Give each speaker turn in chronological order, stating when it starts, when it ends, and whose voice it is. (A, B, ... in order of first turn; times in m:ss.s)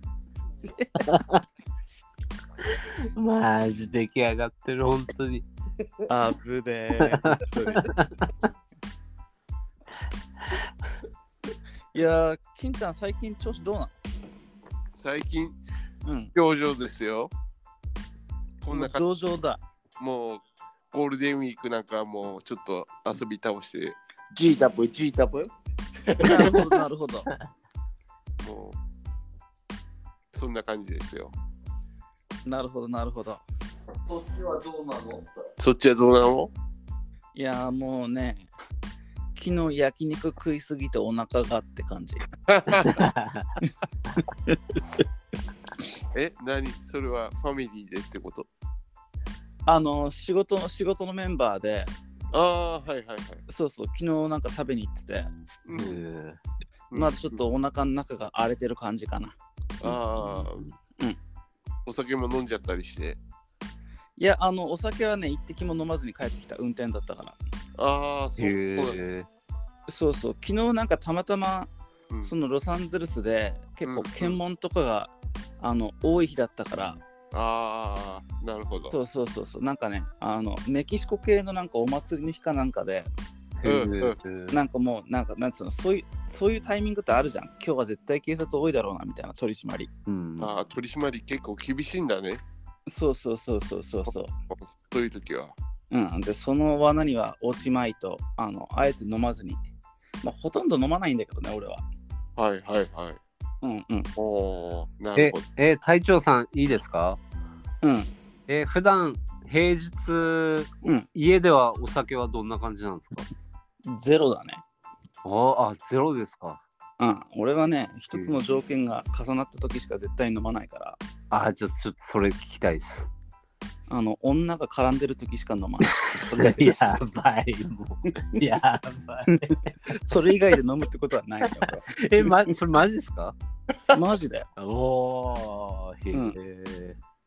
0:00.8-0:01.0 A
0:01.1-0:01.4 B
0:02.7-0:05.4 B
0:06.1-0:07.9 A
0:07.0-0:08.0 B
0:11.9-0:13.9 A
0:14.9-0:15.6 C
0:16.0-0:16.3 A
0:16.3-0:17.3 C
0:18.6-0:19.0 C
0:18.7-0:19.6 A
0:20.0-0:23.9 C
0:24.3-0:25.5 D
0:26.1-0:26.7 D
0:26.2-0:27.3 A
0:28.4-0:28.8 C
0:30.3-0:31.3 C
0:32.4-0:33.4 A
0:34.1-0:35.4 D
0:35.6-0:36.5 C
0:37.3-0:38.5 A
0:39.3-0:42.2 A
0:42.6-0:42.9 C
0:43.2-0:43.4 B
0:44.2-0:44.6 A
0:46.1-0:48.5 C
0:49.7-0:51.9 A
0:52.3-0:53.4 C
0:53.5-0:55.3 A
0:55.6-0:56.0 C
0:55.7-0:56.4 B
0:56.9-0:57.4 C
0:56.9-0:59.3 A
0:59.8-1:00.6 C
0:59.8-1:00.7 B
1:01.8-1:03.2 C
1:04.2-1:07.4 A
1:07.8-1:09.0 C
1:08.4-1:09.3 B
1:09.9-1:11.7 A
1:12.2-1:17.0 A
1:13.9-1:14.4 C
1:17.3-1:18.9 C
1:18.9-1:23.1 A
1:23.6-1:24.6 B
1:23.6-1:24.2 C
1:24.5-1:29.9 A
1:30.1-1:30.6 B
1:30.4-1:32.4 C
1:32.9-1:34.3 A
1:34.5-1:35.6 C
1:35.9-1:39.6 A
1:40.2-1:41.8 A
1:42.4-1:43.2 C
1:43.6-1:44.1 A
1:44.2-1:45.4 C
1:45.1-1:47.2 B
1:47.8-1:48.1 A
1:48.5-1:53.3 B
1:50.8-1:51.1 A
1:53.8-1:54.6 A
1:55.2-1:56.6 B
1:57.0-2:01.0 A
1:58.1-1:58.4 B
2:01.3-2:03.1 B
2:03.9-2:07.0 A
2:06.3-2:09.7 B
2:09.9-2:12.5 A
2:11.7-2:13.3 B
2:13.9-2:14.5 A
2:14.6-2:17.0 B
2:16.1-2:16.4 A